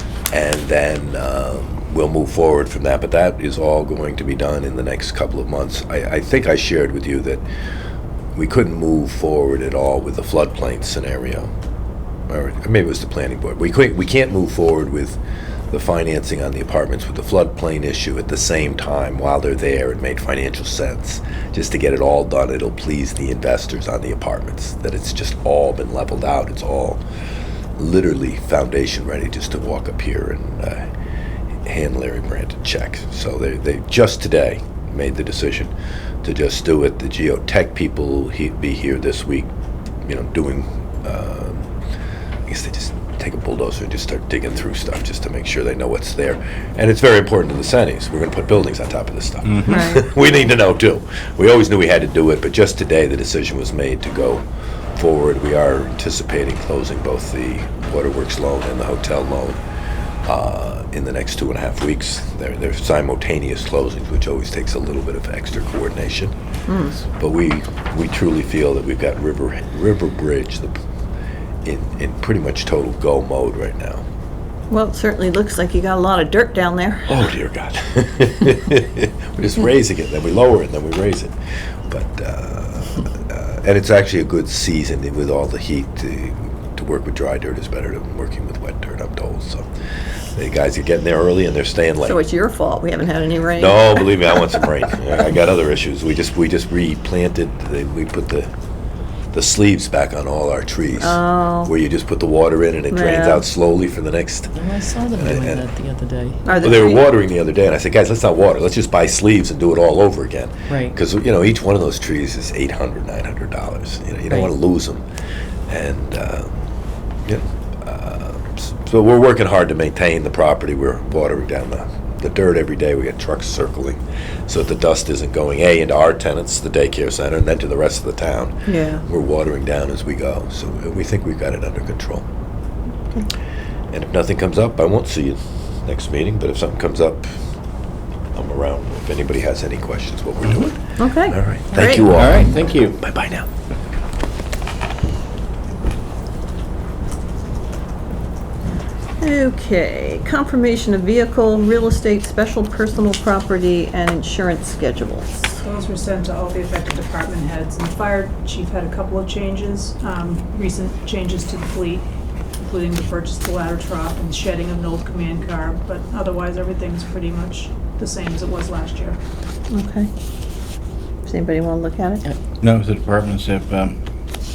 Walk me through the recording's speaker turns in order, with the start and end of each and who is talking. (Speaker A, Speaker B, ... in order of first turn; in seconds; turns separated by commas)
Speaker A: 0.3-7.4, Speaker A: 8.3-11.5, Speaker A: 12.3-15.2, Speaker A: 15.7-27.0, Speaker A: 27.8-30.9, Speaker A: 31.6-35.7, Speaker A: 36.2-39.5, Speaker A: 40.0-41.7, Speaker A: 42.5-54.4, Speaker B: 49.6-50.0, Speaker A: 55.0-59.6, Speaker A: 60.2-66.3, Speaker B: 66.7-67.0, Speaker A: 67.0-70.8, Speaker A: 71.6-74.0, Speaker B: 74.7-77.2, Speaker A: 77.1-81.3, Speaker A: 81.9-89.7, Speaker A: 90.3-92.2, Speaker B: 92.0-94.3, Speaker A: 93.5-98.5, Speaker A: 99.3-104.5, Speaker B: 101.0-101.7, Speaker B: 102.9-103.5, Speaker C: 104.5-106.7, Speaker A: 105.2-105.7, Speaker B: 106.5-107.1, Speaker A: 106.6-115.0, Speaker C: 110.7-110.9, Speaker A: 115.7-116.5, Speaker A: 117.2-128.5, Speaker B: 128.7-129.0, Speaker A: 129.1-132.2, Speaker A: 133.9-137.3, Speaker A: 138.3-143.5, Speaker B: 141.0-142.1, Speaker D: 142.0-143.0, Speaker B: 149.2-155.5, Speaker E: 155.6-162.0, Speaker E: 162.6-169.2, Speaker B: 169.7-170.1, Speaker B: 171.2-172.2, Speaker D: 172.6-173.9